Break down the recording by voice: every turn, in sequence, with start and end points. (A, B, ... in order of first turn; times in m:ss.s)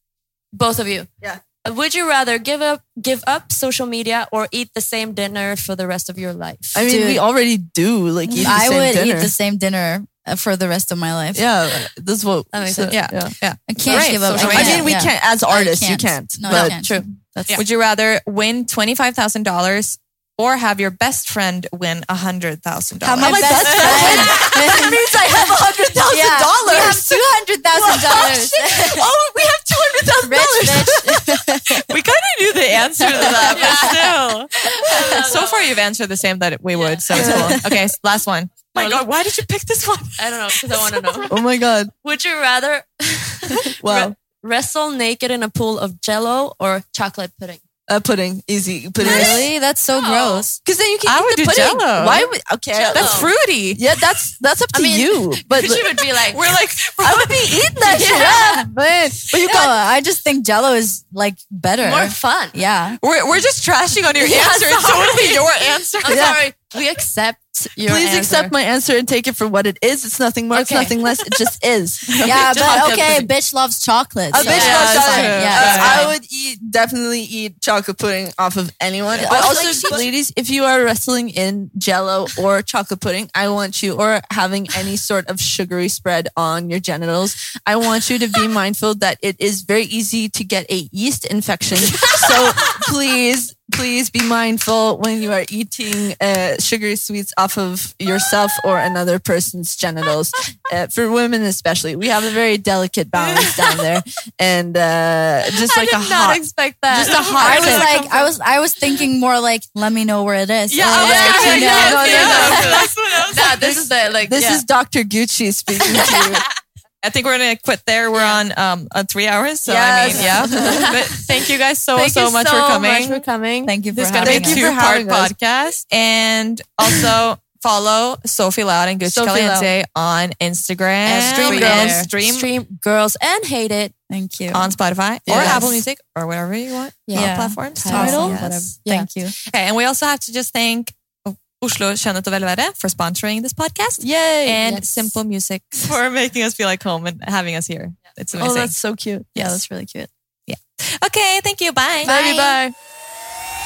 0:00.5-0:01.1 A
0:01.6-0:06.8 A
0:06.7-0:09.3 B
0:06.8-0:07.2 C
0:08.4-0:11.5 C
0:11.4-0:13.4 B
0:12.5-0:13.0 A
0:12.9-0:14.9 D
0:13.7-0:17.6 C
0:13.9-0:16.8 B
0:13.9-0:14.8 A
0:16.5-0:17.2 A
0:17.5-0:24.4 D
0:23.0-0:29.5 C
0:23.2-0:31.8 B
0:30.1-0:31.9 C
0:31.8-0:41.2 D
0:33.1-0:33.9 C
0:33.2-0:33.5 B
0:33.5-0:34.0 A
0:34.6-0:35.7 A
0:34.9-0:35.1 B
0:36.8-0:37.6 A
0:37.1-0:37.8 B
0:38.8-0:39.1 A
0:40.2-0:41.3 A
0:41.3-0:41.9 B
0:42.0-0:47.6 A
0:43.8-0:44.2 B
0:47.9-0:49.5 B
0:49.0-0:50.6 C
0:49.9-0:50.5 A
0:50.6-0:55.8 B
0:51.1-0:52.3 D
0:52.7-0:53.3 A
0:52.9-0:53.8 D
0:54.7-0:56.4 A
0:56.2-0:58.5 D
0:57.0-0:59.7 B
0:57.9-0:58.7 A
0:59.2-1:03.0 C
1:01.8-1:02.6 A
1:03.0-1:06.4 D
1:04.2-1:08.5 A
1:06.1-1:06.4 B
1:07.8-1:12.6 B
1:10.5-1:11.0 A
1:12.2-1:16.2 C
1:12.2-1:13.3 A
1:14.3-1:48.1 B
1:14.4-1:16.1 D
1:14.4-1:16.0 A
1:19.2-1:20.1 C
1:19.3-1:20.0 A
1:31.9-1:32.7 A
1:45.6-1:48.3 A
1:47.0-1:47.9 D
1:47.4-1:52.7 C
1:50.7-1:53.9 D
1:50.9-1:54.6 A
1:51.1-1:52.7 B
1:54.2-1:56.4 B
1:57.0-2:03.3 D
1:58.1-1:58.4 A
1:59.6-2:00.9 B
2:00.1-2:01.2 A
2:00.3-2:00.6 C
2:01.9-2:03.8 A
2:03.7-2:04.6 C
2:03.9-2:12.5 D
2:04.2-2:05.3 B
2:09.0-2:09.7 B
2:11.0-2:13.9 A
2:11.2-2:12.1 B
2:14.1-2:14.7 C
2:14.5-2:18.7 D
2:15.3-2:15.8 B
2:15.3-2:15.7 A
2:17.1-2:19.1 A
2:17.1-2:19.3 C
2:17.9-2:18.4 B
2:19.5-2:28.8 D
2:24.0-2:25.1 A
2:28.4-2:29.2 B
2:28.6-2:29.2 A
2:29.3-2:29.6 D
2:29.4-2:30.1 C
2:30.5-2:32.2 D
2:32.0-2:32.6 C
2:32.0-2:32.7 A